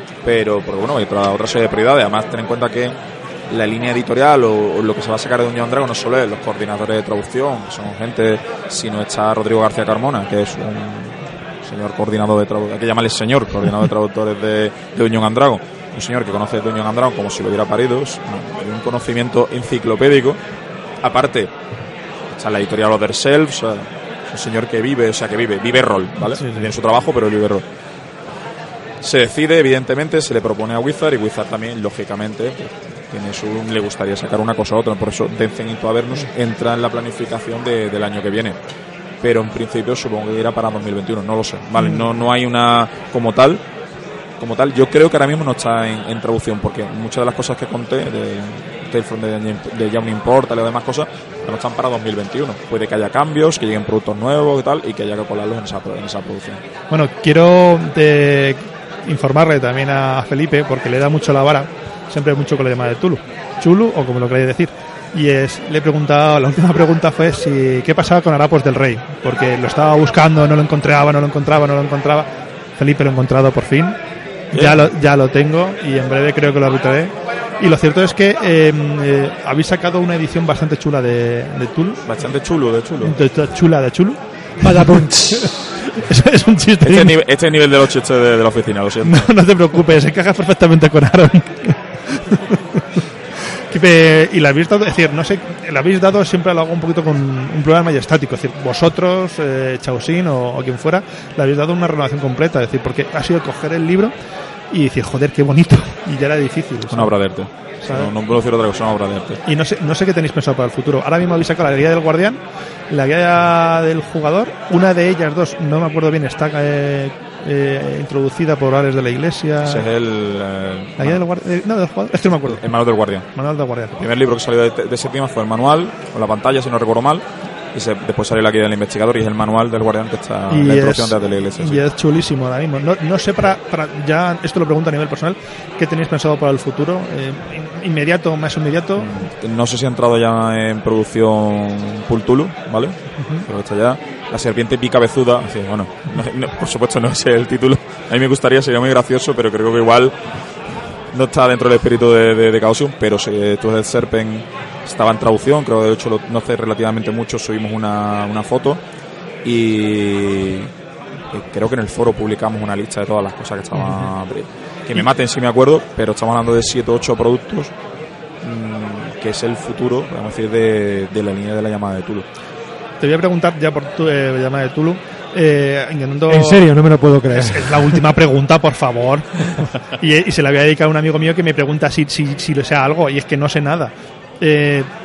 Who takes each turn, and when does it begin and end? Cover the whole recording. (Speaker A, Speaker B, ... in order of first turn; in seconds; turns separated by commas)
Speaker A: 0.2-3.0, Speaker A: 3.5-20.4, Speaker A: 21.0-21.5, Speaker A: 22.3-27.6, Speaker B: 26.3-26.7, Speaker A: 29.0-38.6, Speaker A: 39.2-43.6, Speaker B: 41.8-42.1, Speaker A: 44.4-56.6, Speaker B: 56.9-74.0, Speaker B: 74.5-82.0, Speaker A: 74.5-74.9, Speaker A: 82.1-83.2, Speaker B: 83.0-87.2, Speaker C: 84.6-85.8, Speaker A: 86.8-89.3, Speaker B: 89.0-92.8, Speaker B: 93.7-104.1, Speaker B: 104.7-107.1, Speaker A: 106.9-109.4, Speaker B: 107.8-108.1, Speaker B: 109.5-112.4, Speaker B: 112.9-119.8, Speaker A: 119.7-121.2, Speaker B: 121.0-122.7, Speaker A: 122.5-123.3, Speaker B: 123.3-124.0, Speaker A: 124.0-131.8, Speaker B: 130.5-139.1, Speaker A: 139.0-150.2, Speaker A: 151.1-158.8, Speaker A: 159.4-160.7, Speaker A: 161.3-167.7, Speaker A: 168.4-172.3, Speaker B: 173.0-176.6, Speaker C: 176.3-178.0, Speaker B: 177.3-184.9